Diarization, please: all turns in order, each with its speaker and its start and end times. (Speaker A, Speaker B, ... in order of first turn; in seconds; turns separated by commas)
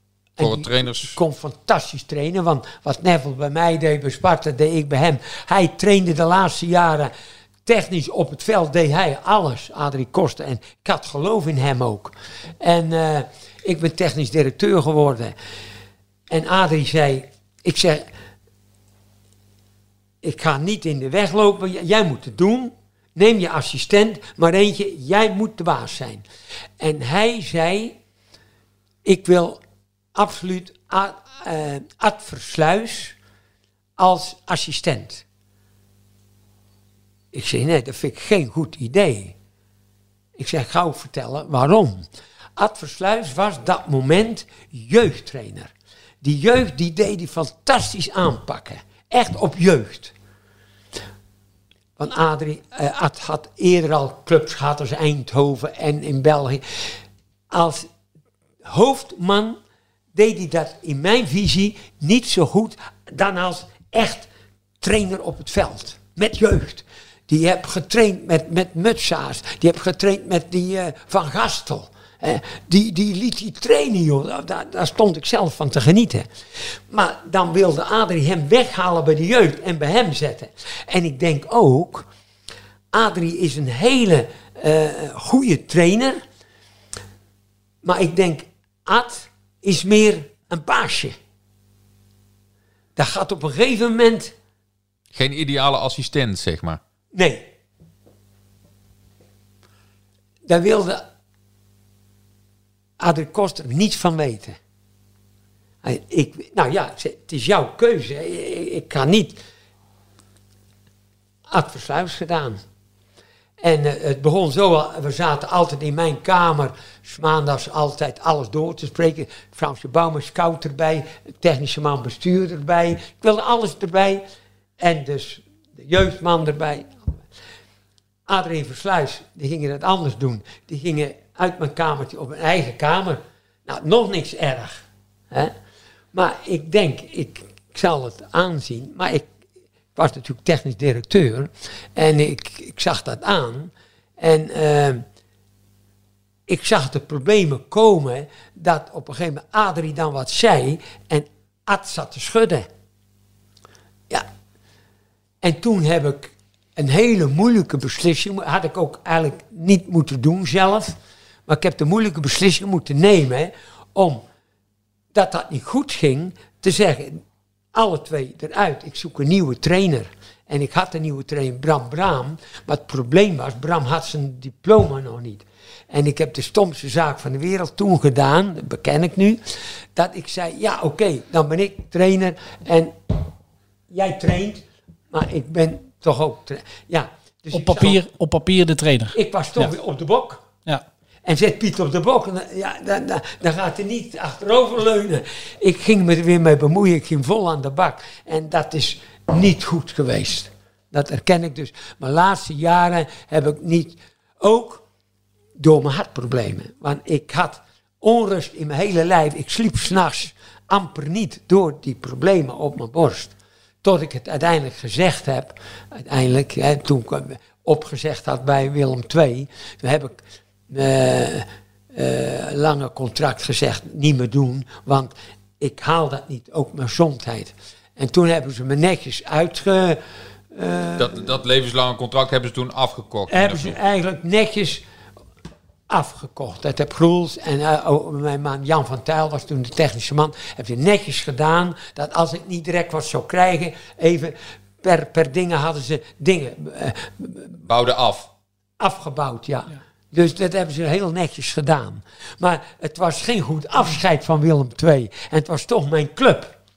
Speaker A: 0.4-7.1, Speaker B: 0.4-1.1, Speaker A: 7.7-15.3, Speaker A: 16.3-18.1, Speaker A: 20.2-26.2, Speaker A: 26.8-28.0, Speaker A: 29.0-29.6, Speaker A: 30.1-33.1, Speaker A: 34.0-35.2, Speaker A: 37.3-39.3, Speaker A: 40.4-45.7, Speaker A: 46.2-50.1, Speaker A: 52.0-56.6, Speaker A: 57.5-57.9, Speaker A: 58.6-59.6, Speaker A: 60.1-64.3, Speaker A: 64.8-76.3, Speaker A: 76.9-82.1, Speaker A: 82.9-86.2, Speaker A: 87.8-91.2, Speaker A: 93.0-94.3, Speaker B: 95.1-96.8, Speaker A: 97.1-97.5, Speaker A: 100.5-101.0, Speaker A: 103.0-104.6, Speaker A: 105.8-109.4, Speaker A: 111.5-112.6, Speaker A: 113.6-124.2, Speaker A: 124.8-127.2, Speaker A: 128.3-135.5, Speaker A: 136.1-139.3, Speaker A: 139.9-145.0, Speaker A: 146.5-152.7, Speaker A: 155.4-160.9, Speaker A: 161.5-164.2, Speaker A: 165.1-167.2, Speaker A: 167.7-179.4, Speaker A: 179.9-182.9, Speaker A: 183.9-188.0, Speaker C: 187.5-189.7, Speaker A: 189.1-190.4, Speaker A: 191.2-204.8, Speaker A: 205.6-230.0, Speaker A: 230.5-231.2, Speaker B: 231.0-233.8, Speaker A: 233.3-234.8, Speaker A: 235.9-247.6, Speaker B: 247.7-248.3, Speaker A: 248.8-256.5